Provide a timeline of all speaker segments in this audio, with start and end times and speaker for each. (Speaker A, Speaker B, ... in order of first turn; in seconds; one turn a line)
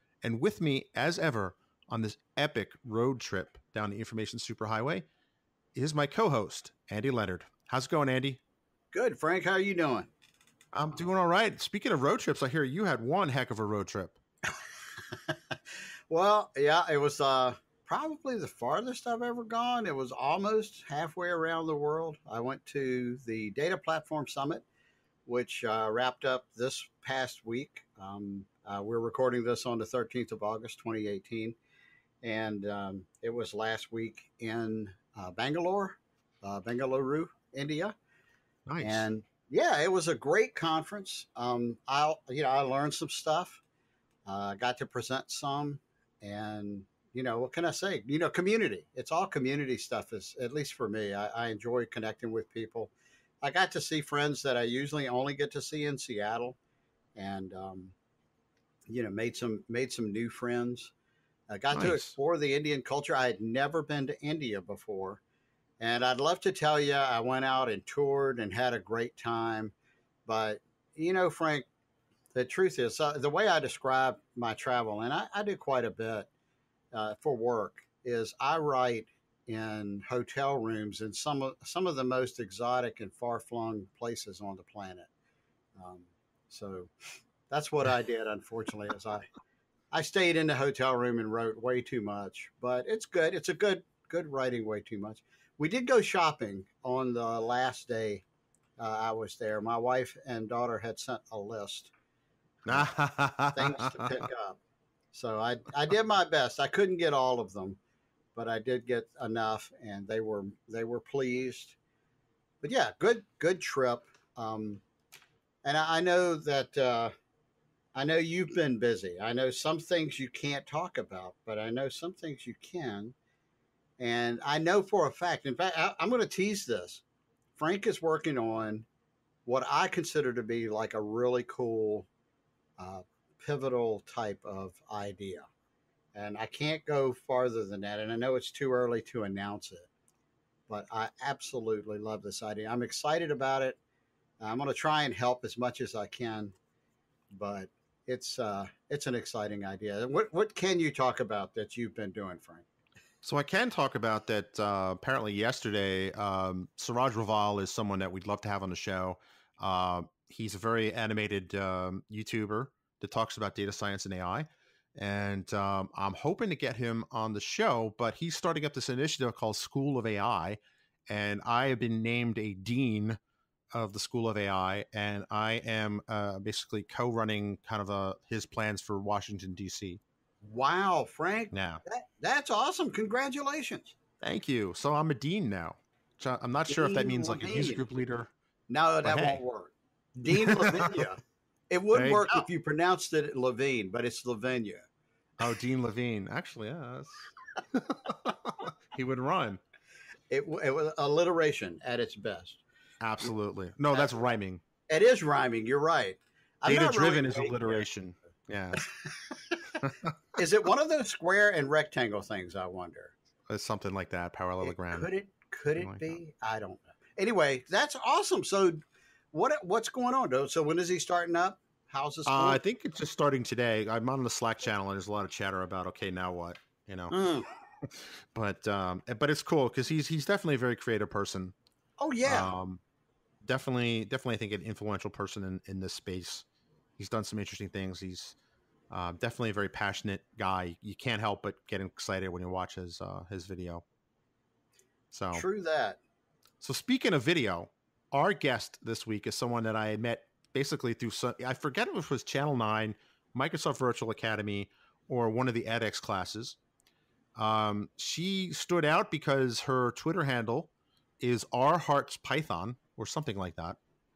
Speaker A: 0.2-5.0
Speaker A: 5.7-8.4
Speaker B: 8.9-10.1
Speaker A: 10.7-14.2
Speaker B: 14.5-15.6
Speaker B: 16.1-24.6
Speaker B: 25.2-31.6
Speaker B: 32.2-38.0
Speaker A: 38.7-39.1
Speaker B: 38.8-43.6
Speaker B: 44.2-56.6
Speaker B: 57.1-57.9
Speaker B: 58.9-60.9
Speaker B: 61.5-65.2
Speaker A: 61.7-62.1
Speaker B: 65.8-69.7
Speaker B: 70.2-71.7
Speaker B: 72.3-76.3
Speaker B: 76.9-85.1
Speaker B: 85.8-86.9
Speaker B: 87.5-89.3
Speaker B: 89.9-98.2
Speaker B: 98.8-101.9
Speaker B: 102.6-102.9
Speaker A: 102.7-104.2
Speaker B: 103.5-104.6
Speaker B: 105.1-107.8
Speaker B: 108.3-111.8
Speaker B: 112.6-114.8
Speaker B: 115.6-117.1
Speaker B: 117.9-123.1
Speaker B: 124.0-127.0
Speaker B: 127.5-128.8
Speaker B: 129.4-132.1
Speaker B: 132.8-135.5
Speaker B: 136.1-139.9
Speaker B: 140.7-143.8
Speaker B: 144.4-146.5
Speaker B: 147.3-152.7
Speaker A: 153.2-173.2
Speaker A: 173.7-180.0
Speaker B: 180.4-183.9
Speaker A: 181.5-181.8
Speaker A: 184.2-188.3
Speaker B: 186.7-187.8
Speaker B: 188.7-194.8
Speaker A: 189.0-189.4
Speaker A: 190.3-191.1
Speaker A: 191.9-192.4
Speaker A: 195.4-199.6
Speaker B: 200.3-202.6
Speaker A: 203.0-204.6
Speaker B: 203.9-204.3
Speaker B: 204.9-207.8
Speaker A: 206.7-208.9
Speaker B: 209.5-209.8
Speaker B: 210.3-213.1
Speaker A: 213.5-215.1
Speaker B: 214.6-222.6
Speaker A: 215.7-216.2
Speaker A: 222.2-227.1
Speaker B: 227.1-227.5
Speaker A: 227.9-231.5
Speaker B: 232.0-232.5
Speaker A: 232.2-232.8
Speaker A: 233.4-236.4
Speaker A: 237.0-238.3
Speaker A: 238.9-243.8
Speaker A: 245.1-245.4
Speaker B: 245.3-246.0
Speaker A: 246.6-256.6
Speaker A: 257.4-263.8